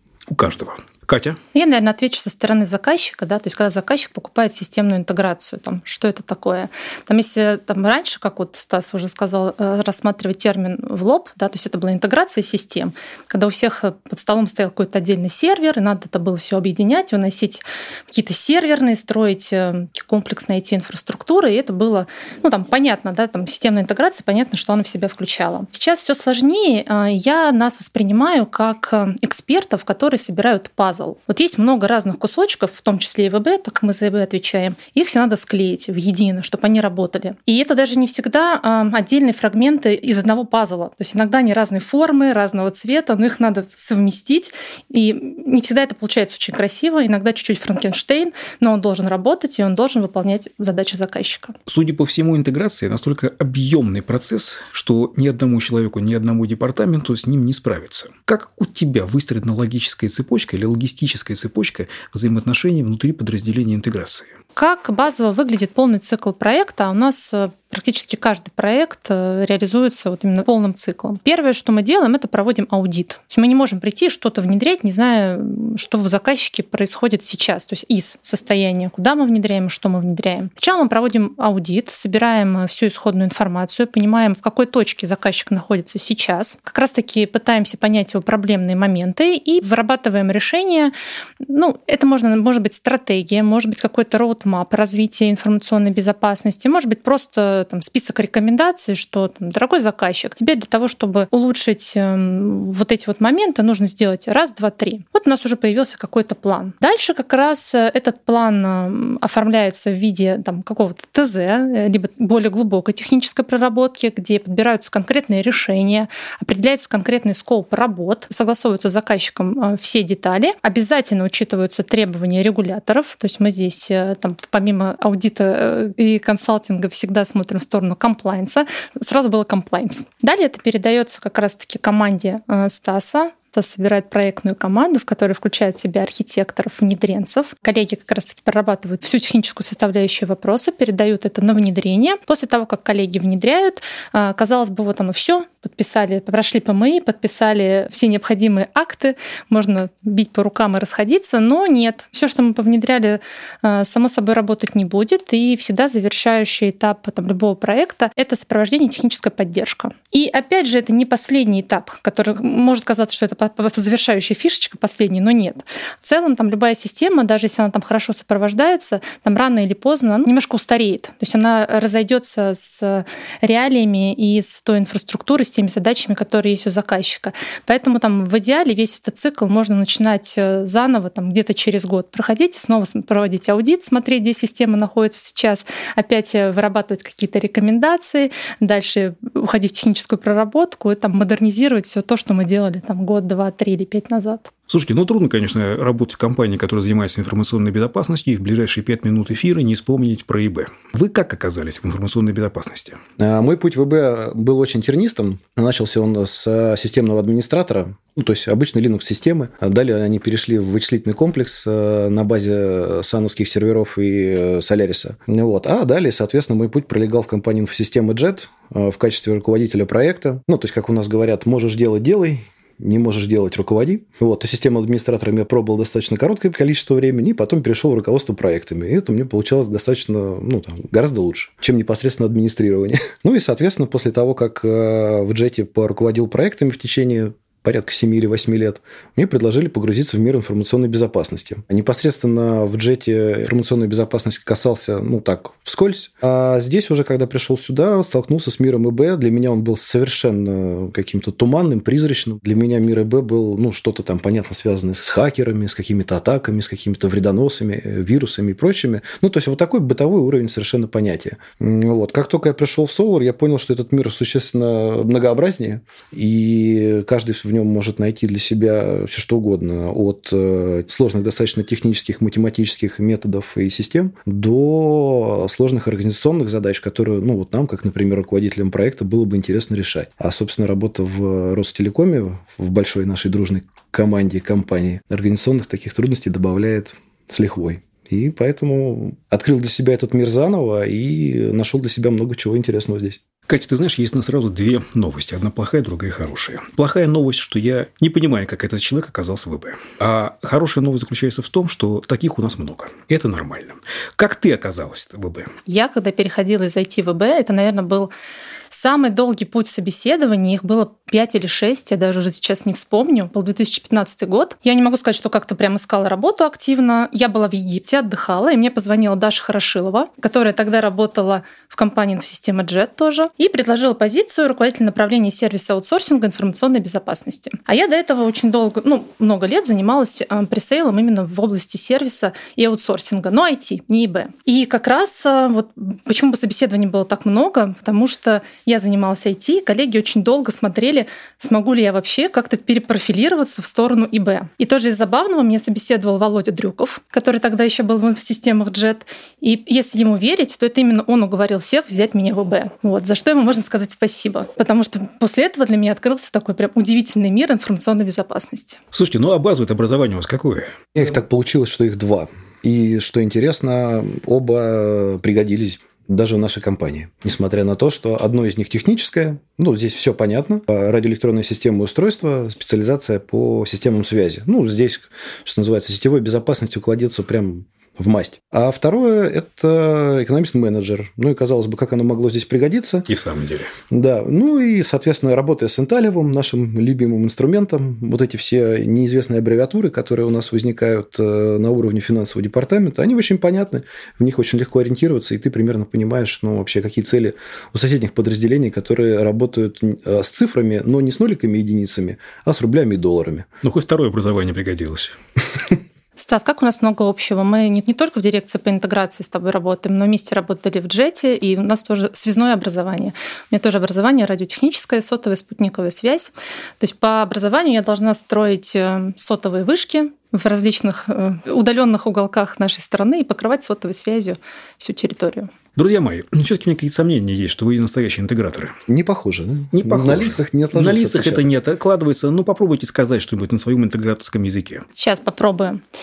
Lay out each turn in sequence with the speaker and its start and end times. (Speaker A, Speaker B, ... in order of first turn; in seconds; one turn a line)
Speaker A: 0.3-1.4
Speaker B: 1.5-51.5
Speaker A: 51.7-64.3
Speaker B: 64.6-194.5
Speaker A: 194.7-203.0
Speaker C: 203.2-293.2
Speaker A: 293.5-305.5
Speaker B: 305.7-308.1
Speaker B: 308.7-358.8
Speaker A: 358.9-360.7
Speaker C: 360.9-383.1
Speaker A: 383.1-383.7
Speaker C: 383.9-403.5
Speaker A: 403.6-405.1
Speaker B: 406.2-425.5
Speaker A: 425.8-428.7
Speaker C: 428.9-431.5
Speaker A: 429.7-434.9
Speaker B: 435.0-435.8